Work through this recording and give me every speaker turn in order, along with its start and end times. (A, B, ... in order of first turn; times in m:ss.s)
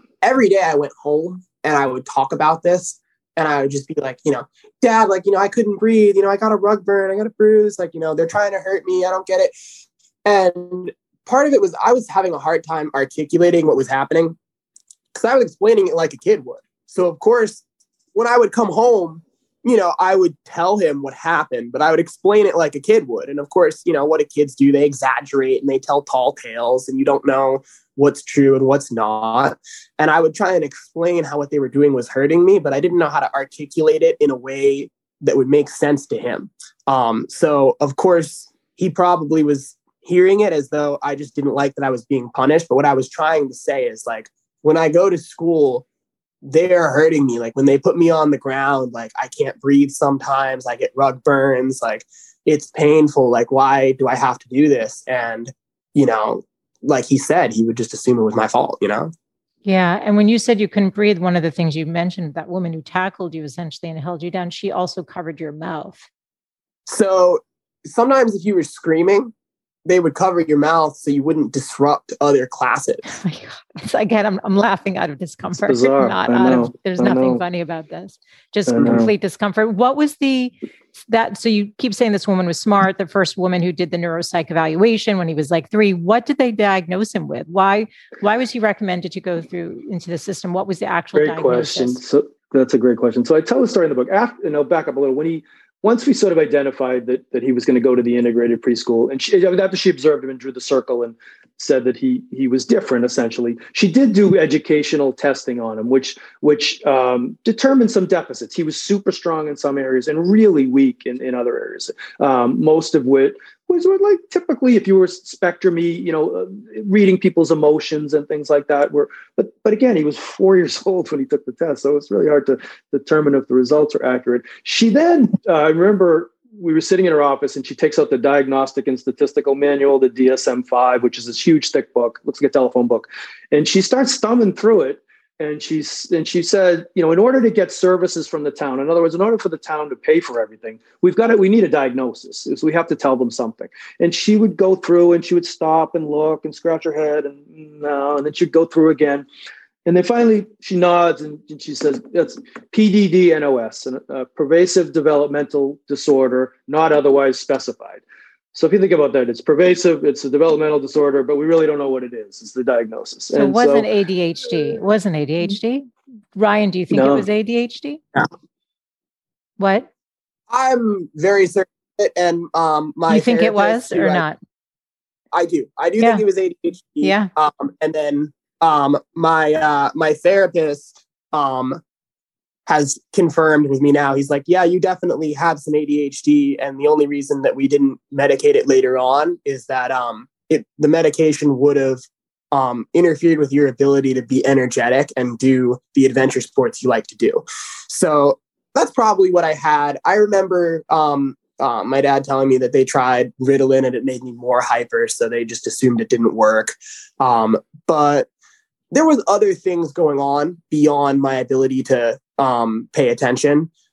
0:00.2-0:09.5 A
0:10.2-0:14.4 A
0:15.1-0:17.6 A
0:18.1-0:45.8 A
0:46.4-0:59.1 A
0:59.6-1:06.1 B
1:06.9-1:09.3 A
1:09.8-1:13.1 A
1:13.1-1:32.0 B
1:15.6-1:17.4 C
1:18.7-1:19.1 C
1:31.1-2:29.3 C
2:29.8-2:43.9 C
2:43.3-2:48.0 B
2:46.9-2:47.3 C
2:49.6-2:49.9 B
2:50.5-2:54.2 A
2:53.1-2:54.4 B
2:55.3-3:01.8 A
2:57.0-2:57.3 B
3:02.7-3:28.3 A
3:28.9-3:33.7 A